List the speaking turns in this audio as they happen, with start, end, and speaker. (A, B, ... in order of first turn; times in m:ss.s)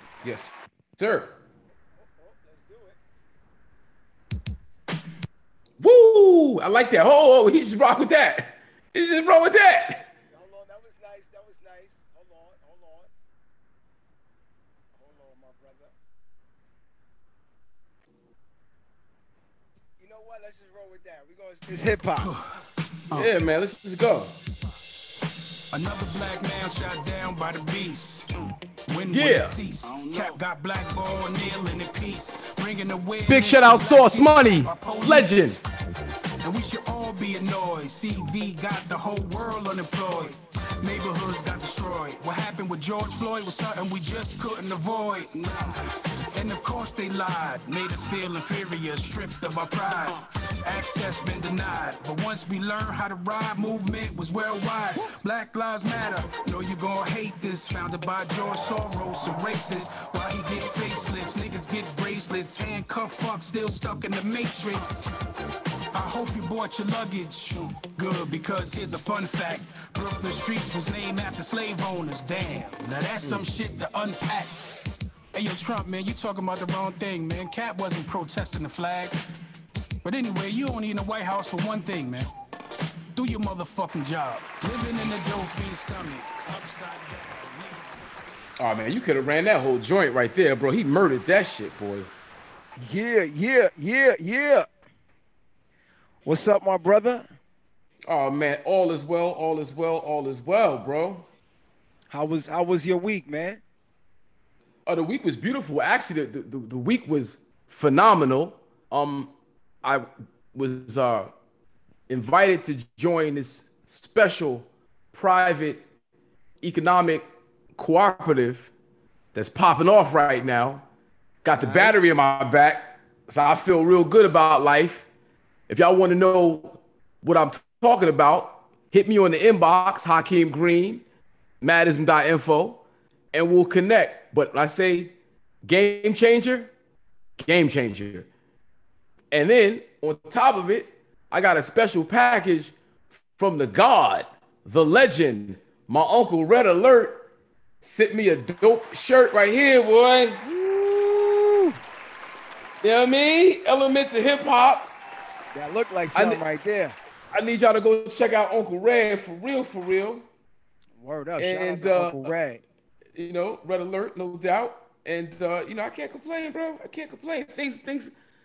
0:00.2-0:01.3 A
0:01.9-0:03.0 B
0:05.8-0:10.0 A
0:10.3-0:13.1 B
0:15.0-0:15.9 B
0:20.0-0:22.3 B
0:22.2-0:22.6 C
0:23.1-0:24.3 A
0:25.7-0:35.4 C
0:29.1-0:29.6 A
0:30.1-0:30.4 B
0:33.3-0:35.6 A
0:36.4-0:45.8 C
0:46.3-1:05.0 C
1:05.9-1:14.7 C
1:15.3-1:19.2 C
1:20.0-1:22.3 C
1:23.1-1:28.0 C
1:28.6-1:32.1 A
1:32.8-1:34.7 B
1:36.2-1:37.3 B
1:38.1-1:41.2 A
1:42.1-1:43.6 B
1:44.9-1:49.3 A
1:49.8-1:51.3 A
1:52.1-1:55.8 A
1:56.6-1:57.2 A
1:57.8-1:58.7 A
1:59.3-2:00.8 A
2:01.4-2:05.0 A
2:01.6-2:02.1 B
2:05.7-2:11.0 A
2:11.6-2:15.1 A
2:15.6-2:16.7 A
2:17.4-2:18.3 A
2:19.3-2:22.7 A
2:23.3-2:27.2 A
2:27.8-2:30.4 A
2:30.4-2:31.7 B
2:32.8-2:34.9 A
2:35.5-2:37.0 B
2:36.2-2:36.4 A
2:37.3-2:40.2 A
2:41.0-2:42.6 B
2:41.4-2:42.3 A
2:43.2-2:48.1 A